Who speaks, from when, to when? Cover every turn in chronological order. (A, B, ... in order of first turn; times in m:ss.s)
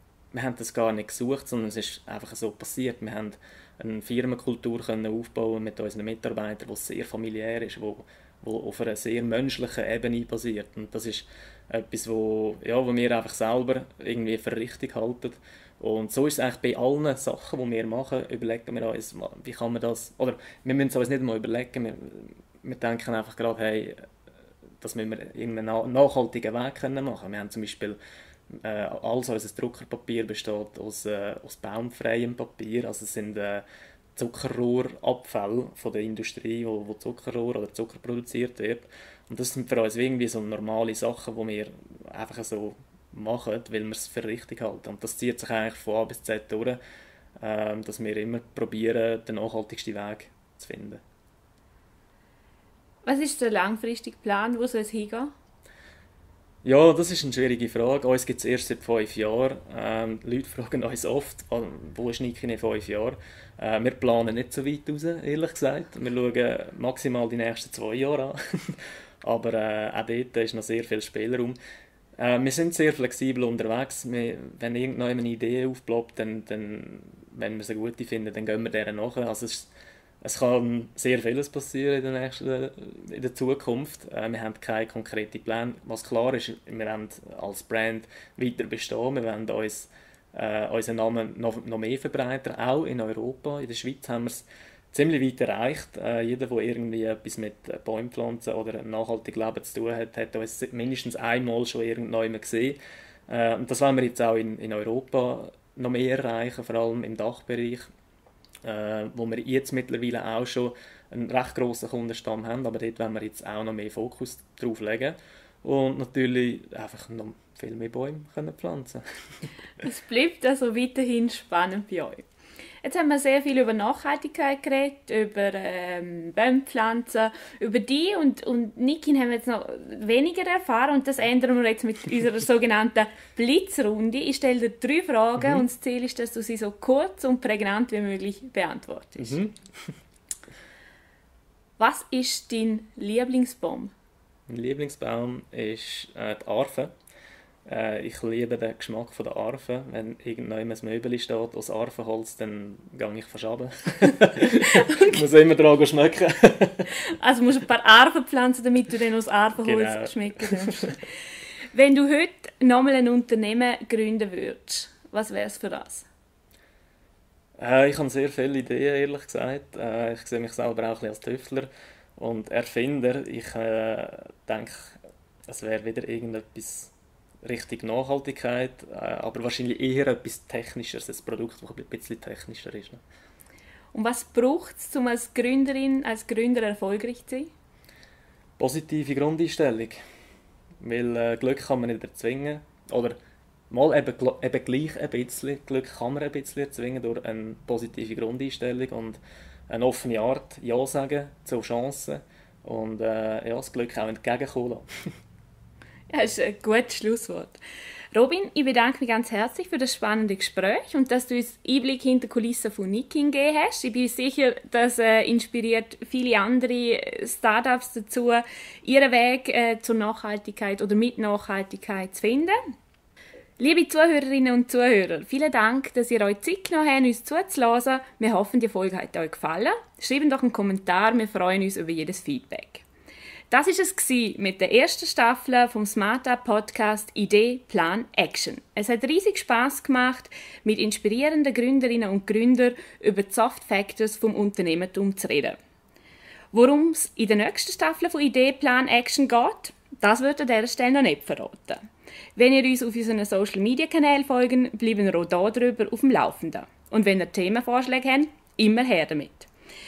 0:00.3-0:24.0 A
0:24.8-0:28.0 A
0:28.6-0:33.6 A
0:34.2-0:46.8 A
0:47.4-0:51.0 A
0:53.0-0:55.3 B
0:56.6-1:11.6 A
1:12.2-1:19.7 A
1:20.2-1:47.9 A
1:48.6-1:59.0 A
1:59.8-2:02.2 B
2:02.8-2:19.4 B
2:15.4-2:15.6 A
2:19.2-2:19.9 A
2:21.8-2:23.9 B
2:24.5-2:26.9 A
2:27.7-2:36.9 A
2:34.7-2:35.1 B
2:37.1-2:41.0 B
2:39.6-2:40.8 A
2:41.7-2:46.1 B
2:47.6-2:55.0 A
2:55.5-2:56.9 A
2:57.4-3:03.0 A
3:03.9-3:07.5 B
3:08.6-3:10.0 A
3:10.8-3:13.2 A
3:13.7-3:24.9 A
3:26.1-3:27.6 B
3:28.1-3:42.6 B
3:43.6-3:52.8 B
3:53.5-4:05.6 B
4:06.5-4:11.8 B
4:12.4-4:19.5 B